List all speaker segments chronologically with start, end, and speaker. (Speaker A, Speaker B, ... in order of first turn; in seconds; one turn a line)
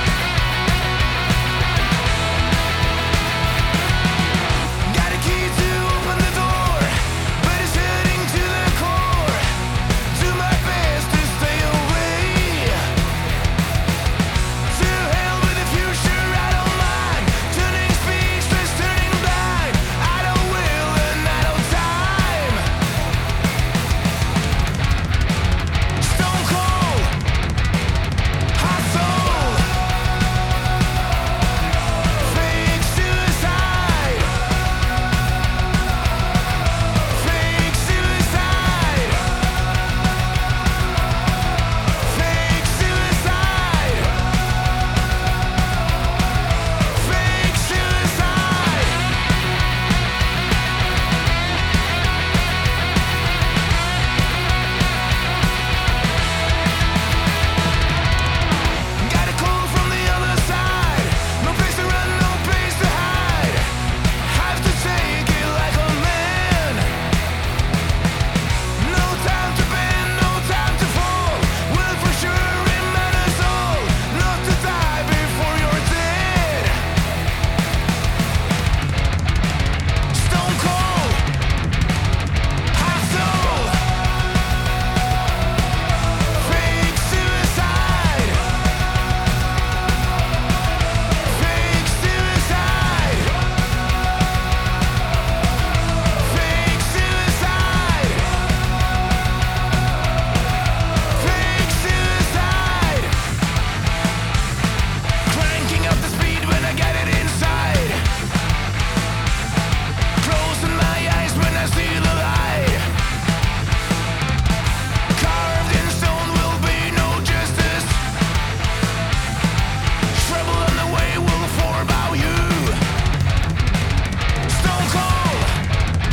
Speaker A: 4.8-9.5
Speaker A: 10.1-12.9
Speaker A: 14.7-22.7
Speaker A: 26.0-27.2
Speaker A: 28.5-29.8
Speaker A: 32.1-34.4
Speaker A: 37.0-39.3
Speaker A: 41.9-44.2
Speaker A: 46.9-49.0
Speaker A: 59.0-67.0
Speaker A: 68.8-76.8
Speaker A: 80.1-81.3
Speaker A: 82.7-83.9
Speaker A: 86.3-88.5
Speaker A: 91.2-93.4
Speaker A: 96.1-98.4
Speaker A: 101.1-103.2
Speaker A: 105.3-108.1
Speaker A: 110.2-112.9
Speaker A: 115.1-118.1
Speaker A: 120.1-122.8
Speaker A: 124.5-125.6